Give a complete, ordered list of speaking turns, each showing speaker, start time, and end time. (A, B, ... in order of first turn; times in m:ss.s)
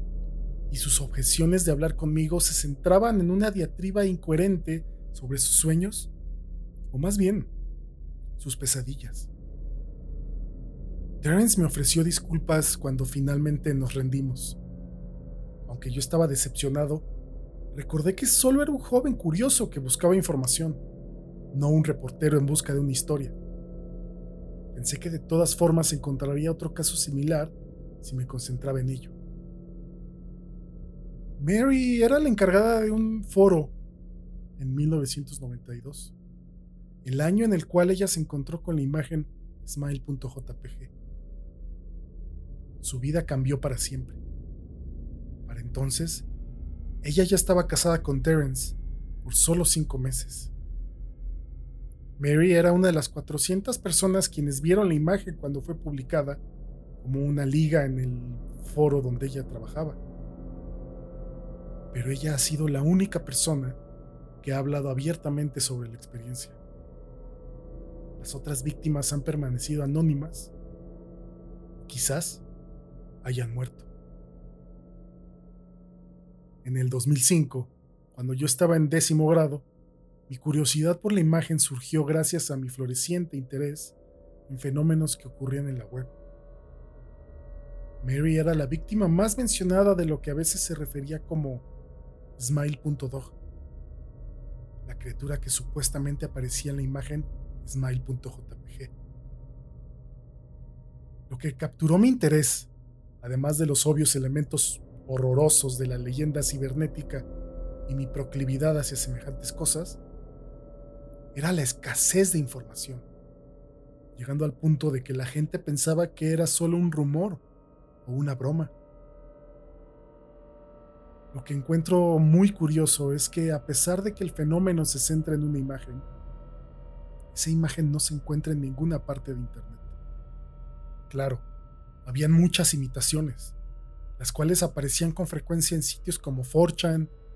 0:00.7-0:06.1 A
0:06.9-0:07.5 A
0:08.4-0:09.3 A
0:11.2-0:14.6 A
0:15.6-0:17.1 A
0:17.7-0:20.8 A
0:21.5-0:23.3 A
0:24.7-0:29.1 A
0:31.4-0:33.7 A
0:34.6-0:36.1 A
0:37.0-0:40.9 A
0:42.8-0:44.2 A
0:45.5-0:46.3 A
0:47.0-0:50.5 A
0:52.2-0:56.4 A
0:57.0-1:00.0 A
1:01.9-1:03.8 A
1:04.4-1:06.6 A
1:08.2-1:10.5 A
1:11.9-1:12.4 A
1:13.2-1:13.9 A
1:16.6-1:19.7 A
1:20.3-1:23.9 A
1:24.5-1:26.1 A
1:28.0-1:31.7 A
1:32.4-1:33.4 A
1:34.8-1:38.9 A
1:41.3-1:42.7 A
1:43.2-1:47.3 A
1:47.9-1:50.0 A
1:51.3-1:53.1 A
1:54.1-1:57.4 A
1:58.0-1:58.7 A
2:01.3-2:06.0 A
2:07.3-2:09.9 A
2:11.1-2:11.4 A
2:12.0-2:13.5 A
2:14.2-2:17.1 A